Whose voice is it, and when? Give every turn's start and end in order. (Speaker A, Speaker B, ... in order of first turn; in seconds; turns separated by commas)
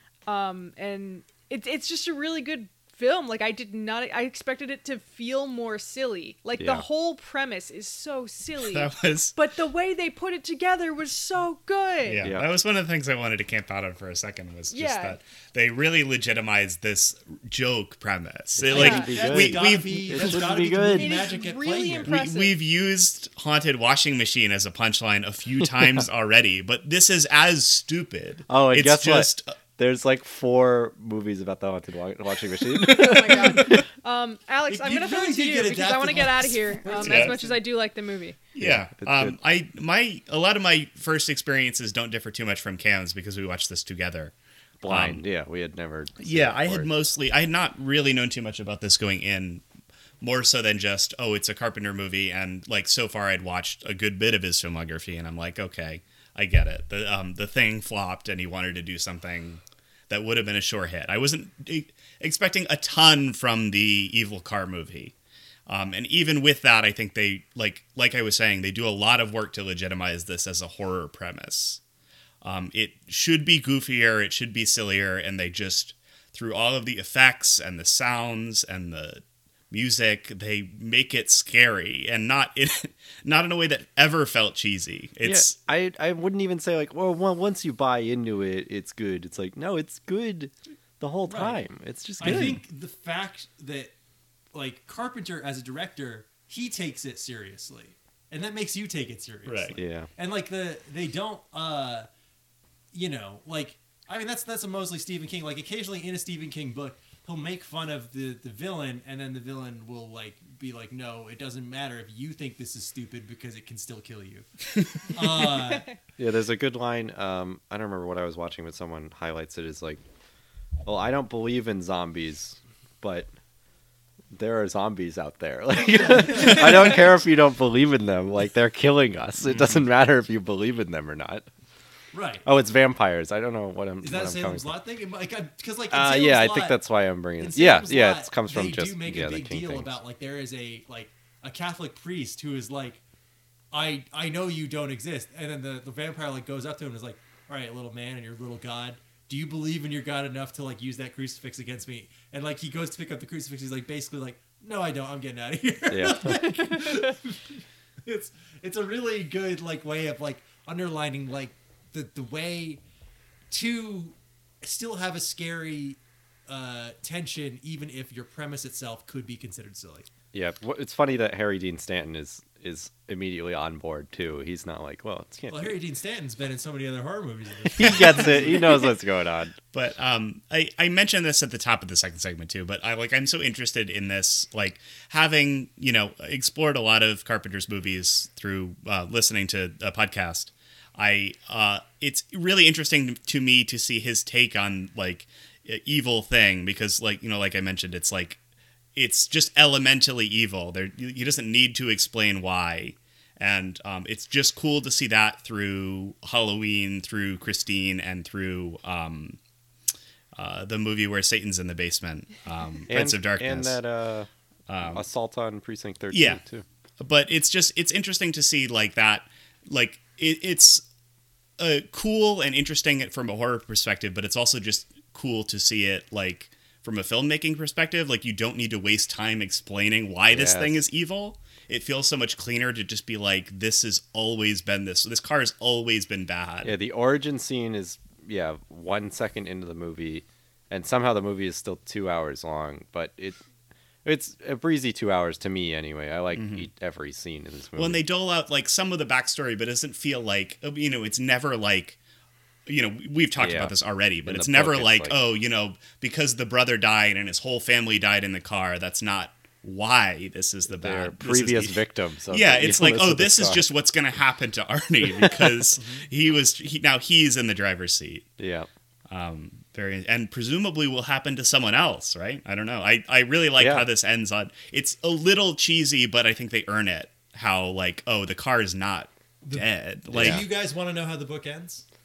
Speaker A: 0.3-12.3, Speaker B: 6.6-6.8, Speaker C: 8.6-9.3, Speaker C: 12.0-20.4, Speaker B: 12.2-12.5, Speaker A: 14.7-15.2, Speaker B: 18.6-21.1, Speaker D: 18.7-22.2, Speaker A: 18.7-19.1, Speaker A: 20.9-22.6, Speaker C: 22.0-29.5, Speaker B: 28.5-33.8, Speaker A: 32.8-38.4, Speaker D: 34.7-37.6, Speaker C: 37.0-37.4, Speaker C: 38.5-44.3, Speaker B: 38.6-39.4, Speaker B: 44.8-46.9, Speaker C: 44.8-45.2, Speaker C: 46.2-49.6, Speaker C: 50.2-65.1, Speaker C: 65.7-71.8, Speaker C: 72.4-85.5, Speaker B: 85.2-92.6, Speaker D: 91.3-91.6, Speaker D: 92.2-93.9, Speaker C: 92.2-92.6, Speaker D: 94.5-102.1, Speaker C: 99.4-99.8, Speaker B: 99.8-100.1, Speaker D: 102.9-114.5, Speaker D: 115.1-115.8, Speaker A: 115.1-115.9, Speaker B: 116.2-120.0, Speaker B: 120.8-123.3, Speaker B: 124.3-131.4, Speaker D: 125.8-127.1, Speaker C: 129.5-129.8, Speaker D: 132.1-132.5, Speaker B: 132.4-134.7, Speaker D: 134.0-136.8, Speaker B: 135.9-139.9, Speaker D: 137.4-143.0, Speaker D: 143.7-162.8, Speaker B: 155.9-156.4, Speaker D: 163.5-170.1, Speaker B: 170.3-175.8, Speaker D: 175.5-178.9, Speaker B: 177.7-179.5, Speaker C: 179.7-198.4, Speaker C: 198.9-209.4, Speaker C: 210.4-213.8, Speaker B: 212.9-214.3, Speaker C: 214.7-215.0, Speaker B: 214.8-216.6, Speaker C: 216.1-216.4, Speaker C: 217.0-220.8, Speaker C: 221.6-236.7, Speaker B: 230.3-230.8, Speaker B: 236.6-243.4, Speaker B: 244.0-248.0, Speaker C: 246.3-246.7, Speaker C: 247.8-252.0, Speaker C: 252.7-268.3, Speaker B: 253.4-255.2, Speaker B: 260.7-263.6, Speaker B: 265.1-265.5, Speaker D: 265.8-266.0, Speaker B: 268.4-268.7, Speaker C: 269.1-280.4, Speaker B: 273.6-273.9, Speaker D: 279.4-281.8, Speaker B: 280.1-280.4